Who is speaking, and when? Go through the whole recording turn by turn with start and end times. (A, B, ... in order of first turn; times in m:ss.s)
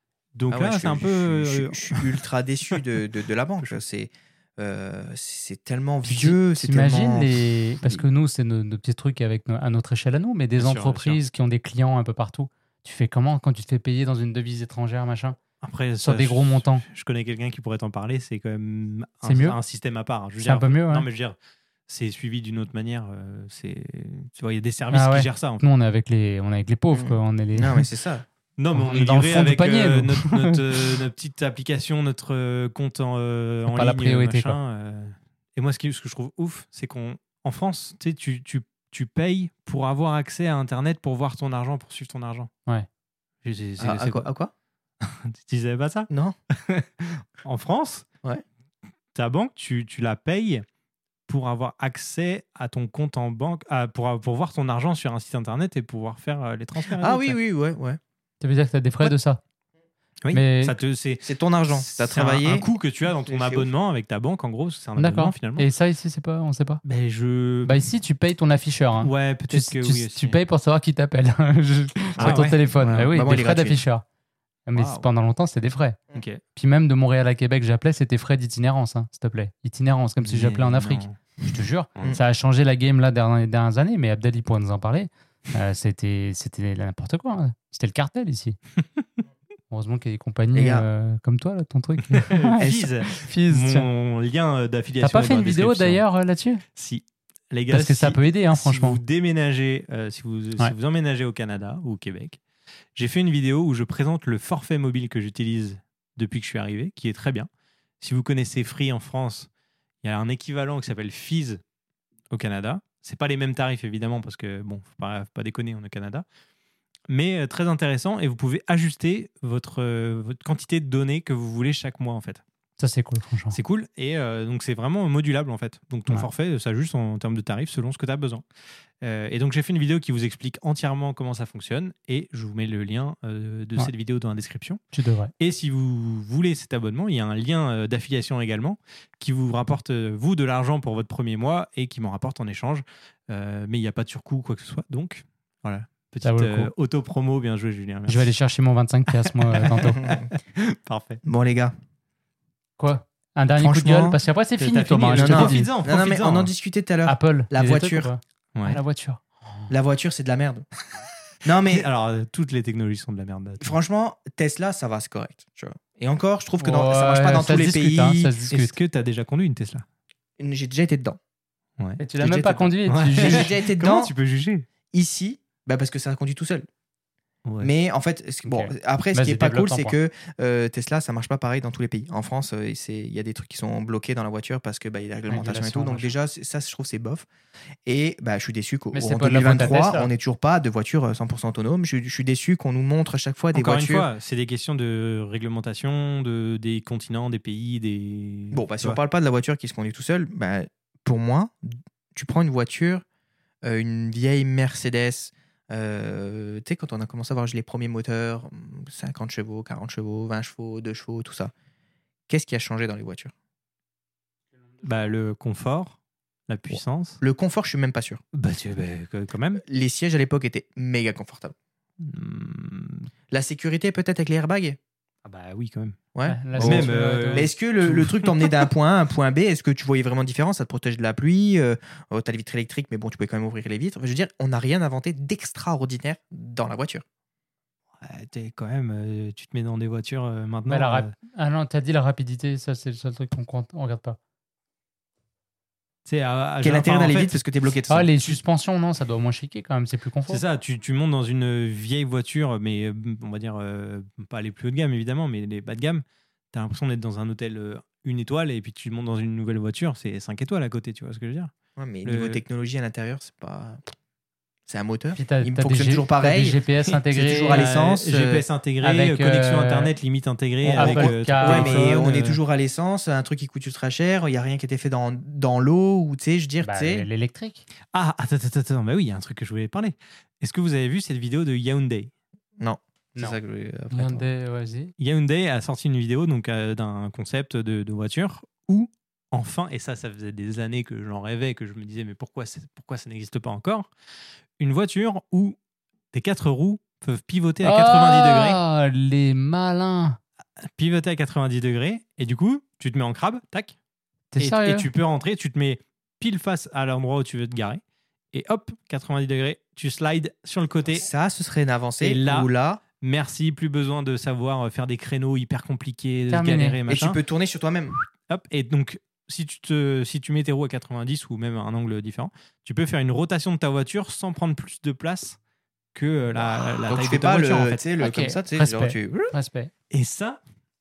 0:00.3-0:02.2 A
0:00.5-0:08.0 B
0:06.0-0:15.4 C
0:10.6-0:11.2 A
0:15.6-0:21.4 A
0:16.0-0:16.8 C
0:19.2-0:19.6 C
0:20.4-0:21.0 C
0:21.9-0:25.6 A
0:24.9-0:27.9 C
0:26.9-0:28.2 B
0:28.6-0:42.5 A
0:28.7-0:31.0 C
0:33.7-0:34.6 C
0:43.4-0:44.3 A
0:43.8-0:44.5 B
0:45.0-0:48.0 A
0:46.1-0:46.3 B
0:49.1-0:50.6 A
0:51.3-0:57.4 A
0:57.0-0:58.0 B
0:58.4-0:59.4 C
1:00.2-1:05.6 A
1:00.3-1:00.8 C
1:01.2-1:02.7 B
1:03.2-1:03.7 B
1:05.0-1:06.8 C
1:06.8-1:07.9 A
1:07.6-1:14.0 C
1:09.0-1:10.4 A
1:12.2-1:13.8 B
1:12.2-1:13.1 A
1:14.7-1:16.0 C
1:14.7-1:15.0 B
1:16.1-1:16.4 A
1:16.6-1:28.6 C
1:20.2-1:21.2 A
1:29.7-1:33.9 C
1:30.5-1:30.9 B
1:32.1-1:36.0 A
1:32.6-1:32.8 B
1:35.0-1:36.6 C
1:36.7-1:42.4 A
1:37.7-1:39.0 C
1:42.9-1:47.5 A
1:48.0-1:49.5 A
1:50.0-1:51.6 A
1:52.3-1:56.2 A
1:57.1-2:02.4 A
2:02.8-2:03.6 C
2:03.5-2:08.4 A
2:09.0-2:14.8 A
2:14.9-2:15.3 C
2:15.4-2:28.3 A
2:26.2-2:26.7 C
2:28.1-2:30.0 C
2:29.1-2:31.2 A
2:29.9-2:30.3 B
2:31.2-2:31.7 B
2:32.8-2:35.7 C
2:33.6-2:34.2 B
2:34.6-2:36.5 A
2:35.2-2:38.1 B
2:37.1-2:39.7 C
2:38.5-2:38.8 A
2:39.7-2:40.6 B
2:41.4-2:41.9 B
2:41.7-2:43.7 A
2:43.6-2:48.3 B
2:46.6-2:48.7 C
2:48.5-2:49.8 A
2:50.4-2:51.2 B
2:52.0-2:53.5 C
2:52.2-2:54.1 B
2:52.8-2:54.6 A
2:54.9-2:56.6 B
2:57.4-2:57.7 A
2:57.6-3:07.2 B
2:58.4-2:59.9 C
3:05.3-3:06.1 C
3:07.8-3:14.1 B
3:08.9-3:10.1 C
3:13.5-3:19.0 A
3:18.5-3:23.0 B
3:23.6-3:31.5 B
3:32.3-3:33.3 B
3:34.8-3:37.2 A
3:36.7-3:38.2 B
3:38.3-3:39.6 A
3:39.6-3:41.5 B
3:42.0-3:43.1 A
3:43.3-3:44.8 B
3:45.2-3:46.0 A
3:46.1-3:57.0 B
3:46.3-3:47.5 C
3:46.6-3:48.6 A
3:58.0-4:01.1 A
4:00.7-4:04.2 C
4:06.0-4:07.4 A
4:06.6-4:08.4 B
4:07.9-4:10.4 C
4:10.3-4:21.5 A
4:21.8-4:23.9 B
4:22.0-4:22.4 A
4:24.7-4:26.6 B
4:25.2-4:27.6 C
4:27.1-4:28.4 B
4:27.5-4:32.4 A
4:28.8-4:29.9 C
4:30.6-4:32.0 C
4:30.6-4:37.1 B
4:36.6-4:37.7 C
4:37.9-4:42.1 A
4:42.6-4:44.2 B
4:43.9-4:44.9 C
4:45.0-4:53.9 A
4:54.6-4:55.6 A
4:56.1-4:58.6 A
4:57.6-5:00.2 C
5:00.6-5:03.7 A
5:04.3-5:04.9 C
5:04.4-5:11.1 A
5:10.9-5:12.8 B
5:12.0-5:17.2 A
5:16.3-5:16.8 C
5:16.9-5:17.9 B
5:18.3-5:25.4 A
5:25.9-5:27.8 A
5:26.8-5:29.3 B
5:28.0-5:29.7 C
5:29.9-5:30.4 A